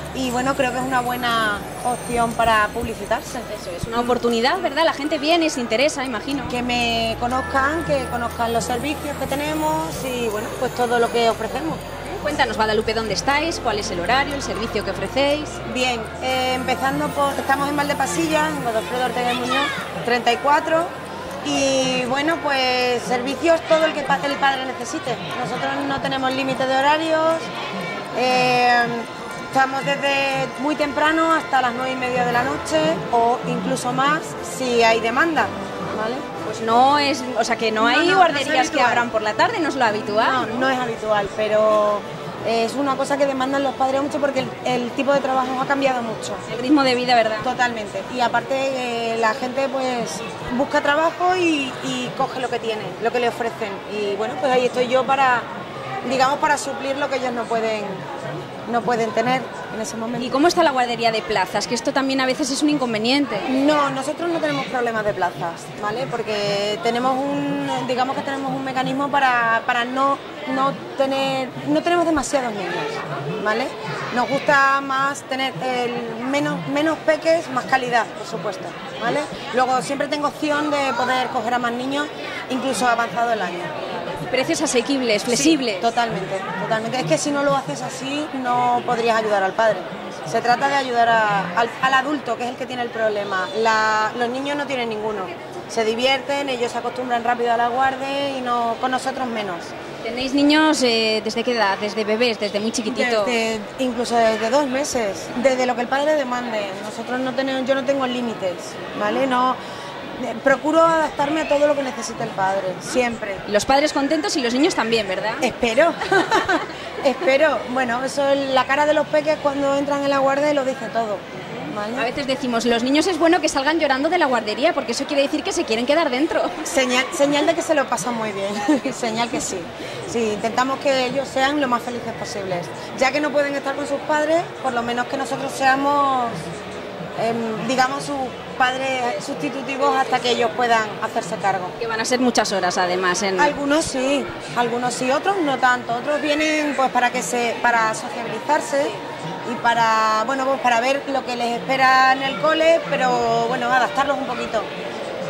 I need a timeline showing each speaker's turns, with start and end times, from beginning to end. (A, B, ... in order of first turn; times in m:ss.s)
0:00.1-0:03.5 A
0:03.5-0:06.6 B
0:06.5-0:11.8 A
0:12.0-0:15.6 B
0:15.6-0:27.5 A
0:28.1-0:36.3 A
0:36.3-0:40.7 B
0:37.8-0:39.1 A
0:40.0-0:46.4 A
0:46.5-0:47.5 B
0:47.4-0:55.5 A
0:56.0-0:58.1 A
0:58.7-1:00.4 A
1:00.2-1:03.5 B
1:03.5-1:23.7 A
1:23.9-1:25.9 B
1:25.3-1:39.7 A
1:40.0-1:43.4 B
1:42.8-1:49.6 A
1:50.2-1:53.4 A
1:53.4-1:55.5 B
1:55.4-2:02.1 A
2:01.9-2:06.7 B
2:06.6-2:16.4 A
2:08.6-2:09.5 B
2:17.2-2:21.8 A
2:21.8-2:23.6 B
2:23.4-2:34.7 A